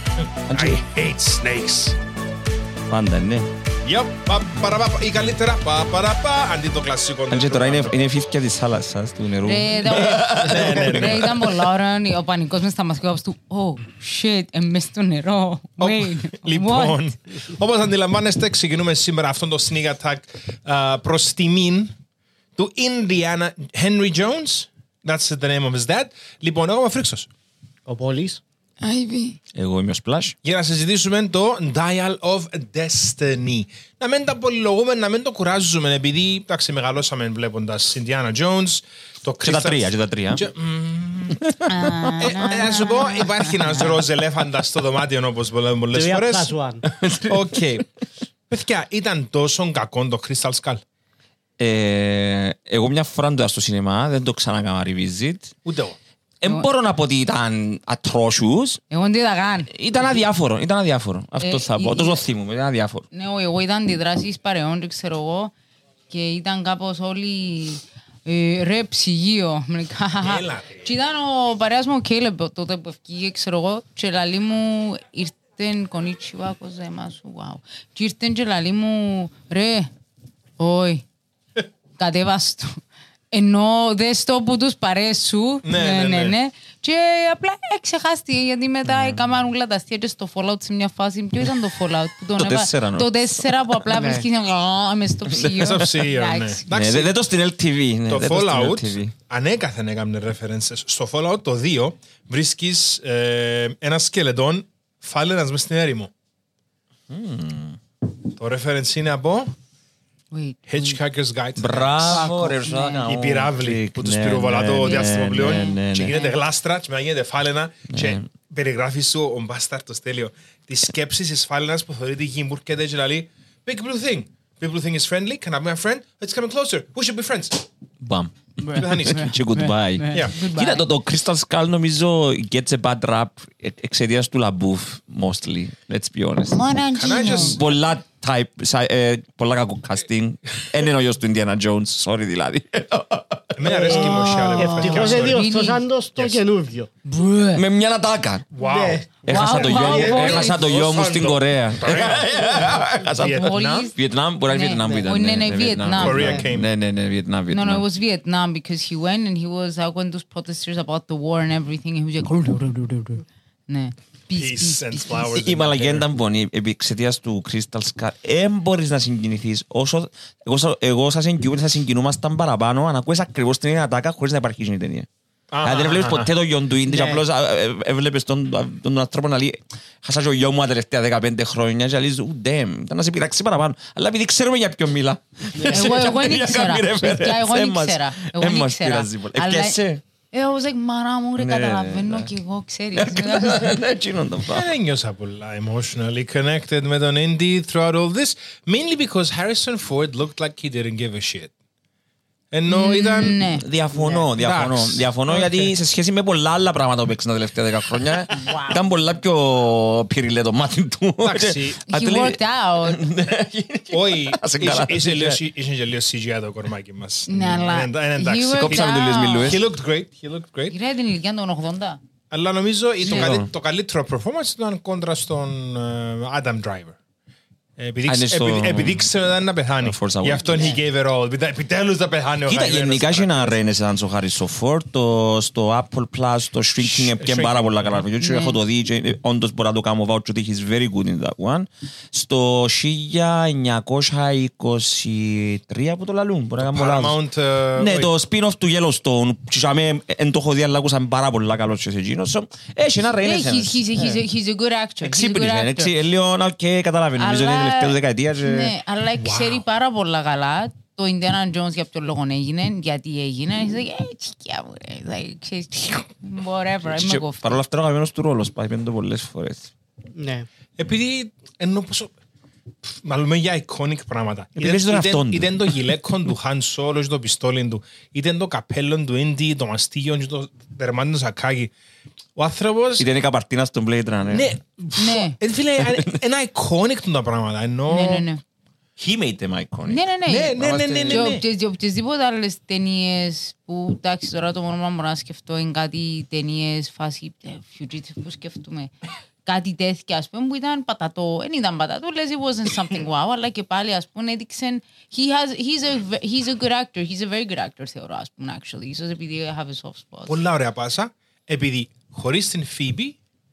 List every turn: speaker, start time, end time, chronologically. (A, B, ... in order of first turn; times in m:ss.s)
0:00.2-0:02.0 A
0:00.5-0:00.8 B
0:02.9-0:03.5 B
0:03.8-0:07.9 A
0:07.3-0:11.4 B
0:09.4-0:17.0 C
0:09.8-0:11.4 A
0:15.8-0:21.9 A
0:22.6-0:27.3 A
0:27.8-0:28.4 D
0:28.8-0:29.4 C
0:29.5-0:30.4 B
0:30.4-0:41.4 A
0:39.4-0:40.5 B
0:41.4-0:42.0 B
0:41.7-0:44.0 C
0:42.2-0:46.5 A
0:45.9-0:46.8 D
0:46.8-0:47.7 B
0:47.2-0:47.8 A
0:48.5-0:50.8 A
0:51.6-0:55.5 B
0:55.6-0:56.0 A
0:56.4-0:58.8 B
0:58.9-1:00.2 C
0:59.7-1:03.0 B
1:01.4-1:02.2 C
1:03.1-1:05.5 C
1:06.1-1:19.9 C
1:10.2-1:10.9 A
1:20.6-1:21.0 C
1:22.0-1:36.6 C
1:25.6-1:26.4 A
1:28.9-1:29.2 B
1:32.3-1:33.8 B
1:33.9-1:34.2 D
1:35.3-1:35.8 B
1:35.6-1:37.1 A
1:36.7-1:39.1 B
1:38.1-1:46.1 A
1:47.1-1:47.8 B
1:48.3-1:49.5 A
1:50.3-1:51.0 C
1:50.6-1:52.3 A
1:51.6-1:56.2 B
1:52.1-1:53.0 C
1:53.0-2:07.6 A
1:54.8-1:56.3 C
1:57.9-1:58.2 B
2:08.0-2:23.9 B
2:08.6-2:10.8 C
2:08.7-2:09.3 A
2:16.5-2:17.6 C
2:16.9-2:17.6 A
2:23.6-2:25.4 A
2:23.7-2:26.9 D
2:23.9-2:25.8 C
2:27.0-2:27.6 C
2:27.5-2:28.6 B
2:28.5-2:33.9 A
2:28.6-2:29.3 D
2:29.2-2:37.8 B
2:29.3-2:30.6 C
2:33.2-2:34.0 C
2:34.5-2:36.4 C
2:35.9-2:36.7 A
2:37.5-2:45.3 C
2:44.4-2:46.0 A
2:45.3-2:55.1 B
2:55.5-2:56.3 A
2:55.6-3:10.0 B
2:56.9-2:57.2 D
3:05.6-3:05.9 D
3:05.7-3:09.8 C
3:10.3-3:13.7 C
3:11.4-3:12.3 B
3:12.9-3:14.7 B
3:14.5-3:21.5 A
3:22.5-3:23.4 A
3:22.7-3:23.6 C
3:23.6-3:35.4 B
3:23.9-3:25.7 A
3:28.3-3:28.8 C
3:31.2-3:31.8 A
3:31.9-3:33.0 C
3:33.9-3:38.8 A
3:37.3-3:39.6 C
3:38.6-3:39.6 B
3:39.4-3:40.8 A
3:40.7-3:42.0 C
3:42.3-3:47.0 A
3:43.0-3:43.3 C
3:43.0-3:43.5 B
3:47.8-3:53.6 A
3:48.0-3:49.1 B
3:49.8-3:50.8 B
3:50.4-3:50.8 C
3:52.5-4:07.2 B
3:56.8-3:58.0 A
3:58.2-3:58.6 C
4:06.6-4:08.1 A
4:07.8-4:13.8 B
4:13.2-4:15.9 C
4:15.0-4:18.7 B
4:17.2-4:27.6 C
4:19.2-4:19.6 A
4:26.8-4:29.7 B
4:30.2-4:30.5 D
4:30.8-4:32.1 A
4:32.8-4:41.7 A
4:34.6-4:35.7 B
4:42.4-4:43.0 A
4:43.0-4:44.5 B
4:44.3-4:48.3 A
4:45.0-4:45.4 C
4:45.8-4:46.2 B
4:47.9-4:48.4 C
4:49.0-4:51.4 B
4:49.9-4:58.9 C
4:50.2-4:51.4 A
4:59.4-5:10.4 C
5:10.3-5:13.2 A